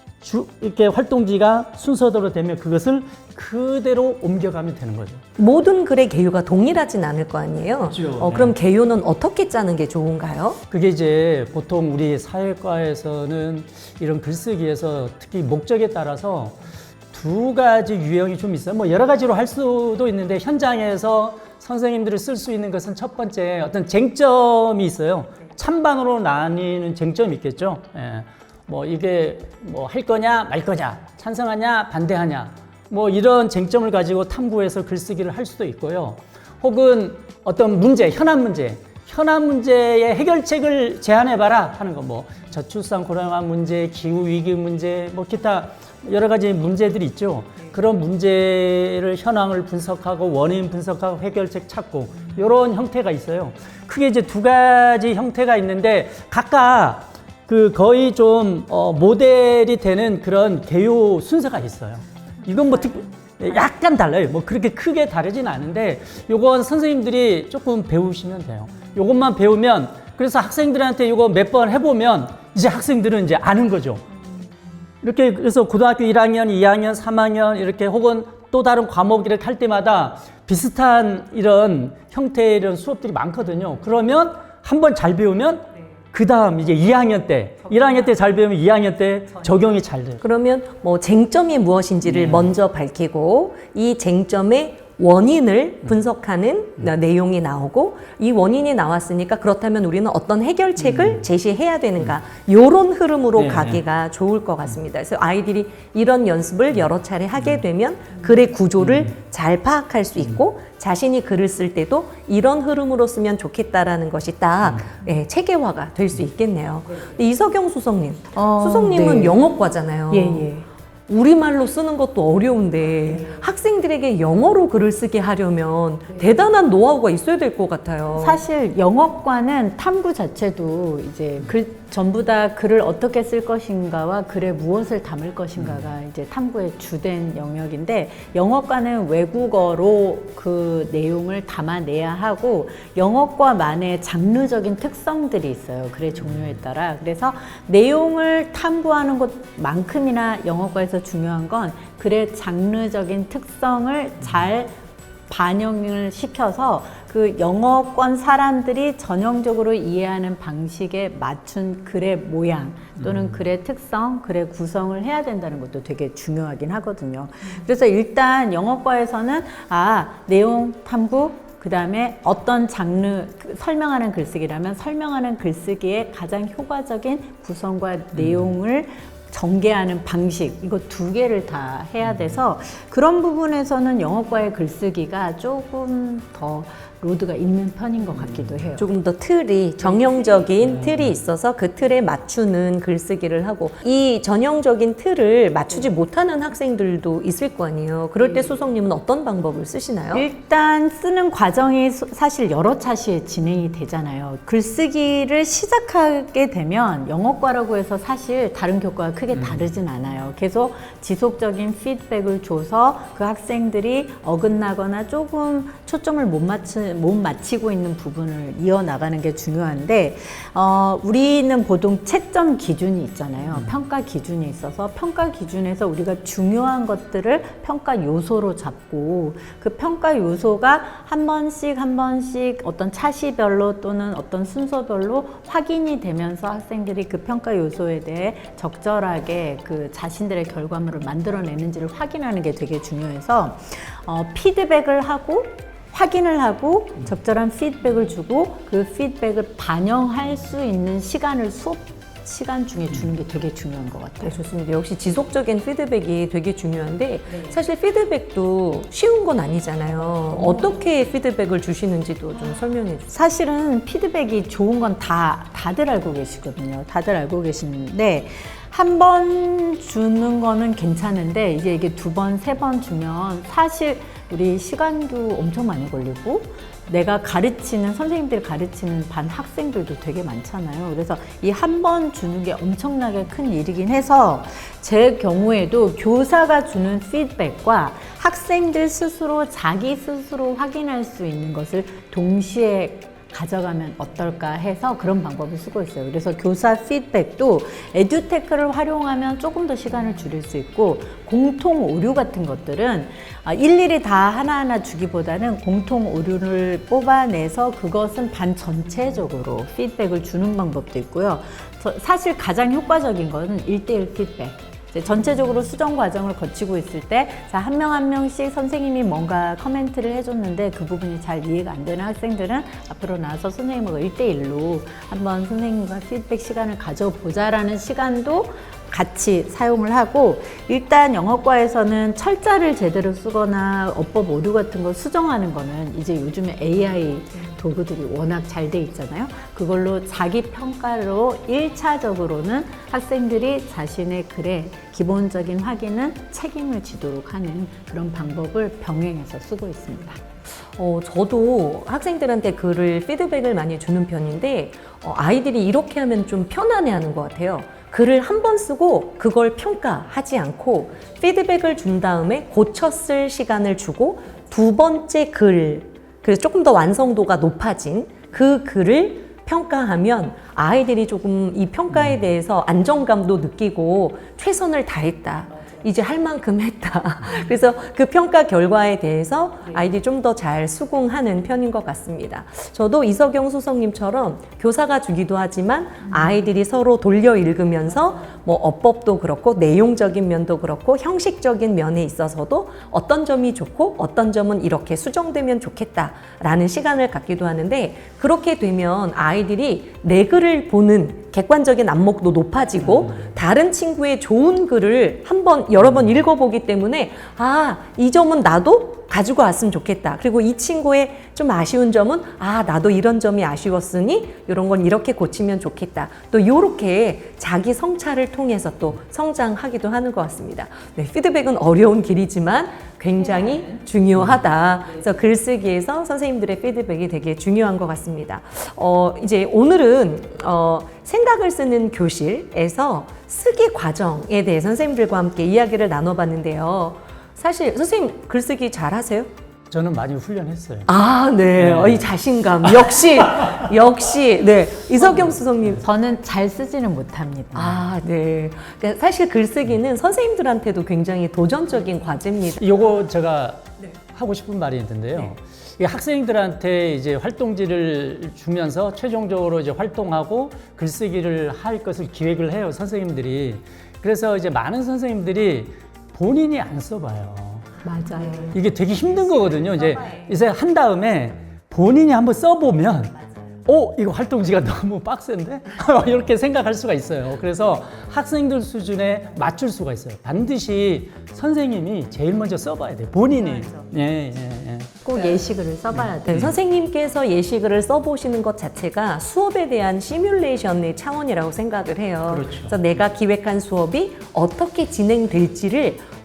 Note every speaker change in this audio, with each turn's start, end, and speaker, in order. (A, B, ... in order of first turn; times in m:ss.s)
0:00.2-0:05.2 A
0:05.4-0:10.6 B
0:07.9-0:08.5 A
0:10.7-1:14.0 A
1:15.0-1:30.2 A
1:30.2-2:00.5 B
1:32.0-1:32.5 A
1:40.9-1:41.2 A
1:43.4-1:43.8 A
1:58.3-1:59.4 C
2:00.1-2:00.6 C
2:01.1-2:08.4 B
2:08.1-2:34.7 C
2:35.3-3:08.9 C
2:58.2-2:58.4 A
3:08.8-3:20.2 B
3:20.1-4:14.4 C
4:14.2-4:23.1 B
4:23.1-5:50.2 C
5:50.8-7:19.3 B
7:19.7-7:20.9 A
7:20.9-7:25.8 B
7:21.6-7:22.1 A
7:25.8-7:27.8 C
7:27.5-7:32.6 B
7:32.6-7:47.7 A
7:47.8-7:48.6 C
7:48.5-7:53.1 A
7:49.5-7:50.2 B
7:53.6-8:04.9 A
8:05.0-8:06.5 C
8:06.3-8:16.0 B
8:12.3-8:12.8 A